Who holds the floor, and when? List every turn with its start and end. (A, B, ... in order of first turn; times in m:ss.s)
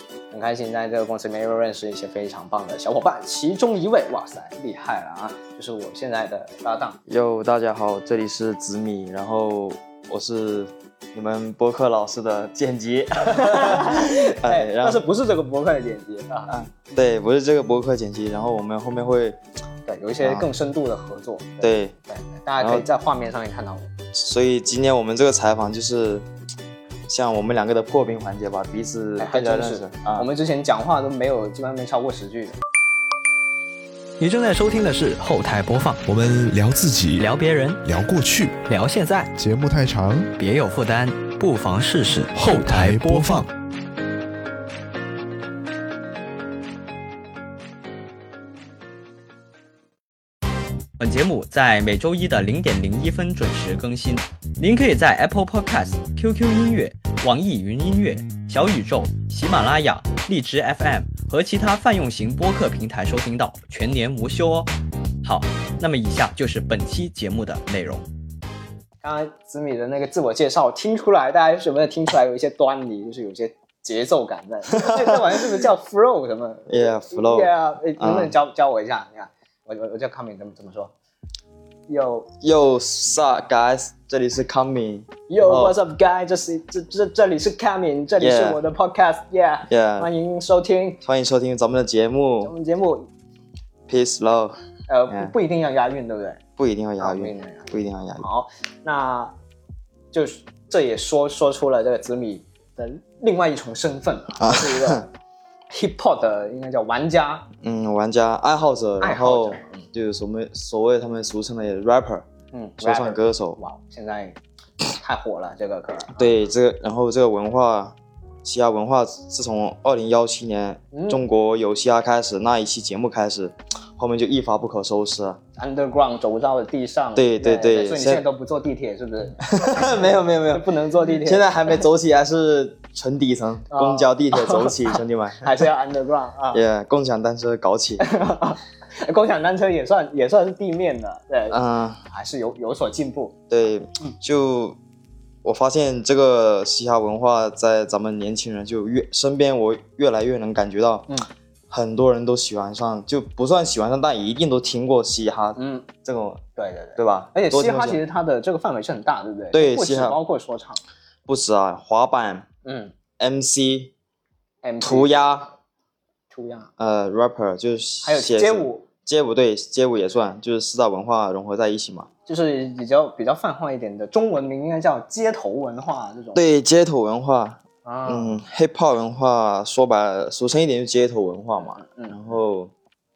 0:00.3-0:07.0 A
0:07.1-0:15.0 B
0:13.3-0:16.5 A
0:16.5-0:19.4 B
0:19.9-0:23.9 A
0:20.2-0:20.5 B
0:21.6-0:21.9 B
0:22.6-0:22.9 B
0:24.1-0:26.3 B
0:27.1-0:30.3 B
0:29.2-0:32.6 A
0:34.2-0:36.1 C
0:36.1-0:37.3 D
0:37.2-0:37.8 C
0:37.8-0:38.6 D
0:38.7-0:39.3 C
0:39.4-0:40.3 D
0:40.4-0:43.5 C
0:42.4-0:43.5 D
0:51.0-1:04.7 C
1:05.2-1:08.1 C
1:09.0-1:20.9 A
1:14.8-1:15.2 B
1:16.7-1:18.3 B
1:21.9-1:22.3 A
1:22.4-1:25.8 B
1:25.3-1:31.0 A
1:28.2-1:28.6 B
1:29.7-1:30.1 B
1:31.0-1:32.5 B
1:32.4-1:33.1 A
1:33.9-1:34.6 B
1:34.9-1:36.4 A
1:35.1-1:35.3 B
1:36.6-1:38.3 B
1:37.0-1:39.3 A
1:40.1-1:45.1 A
1:44.4-1:45.0 B
1:45.7-1:47.5 A
1:47.6-1:52.2 B
1:49.0-1:49.9 A
1:52.5-1:56.3 A
1:52.8-1:53.6 B
1:56.1-2:05.4 B
2:00.9-2:01.2 A
2:05.6-2:11.8 A
2:07.2-2:08.3 B
2:09.4-2:15.7 B
2:13.7-2:16.6 A
2:16.5-2:18.1 B
2:18.0-2:23.4 A
2:21.5-2:22.0 B
2:23.5-2:24.8 B
2:25.4-2:31.1 B
2:31.7-2:36.4 B
2:35.6-2:35.9 A
2:36.6-2:40.8 A
2:37.0-2:38.0 B
2:39.5-2:40.2 B
2:41.3-2:42.5 B
2:42.6-2:42.9 A
2:43.2-2:43.9 B
2:44.6-2:45.3 A
2:44.8-2:45.5 B
2:46.3-2:46.7 A
2:46.8-2:52.1 B
2:48.0-2:48.9 A
2:52.3-2:56.4 A
2:56.4-3:02.7 B
2:57.8-2:58.4 A
3:01.8-3:02.2 A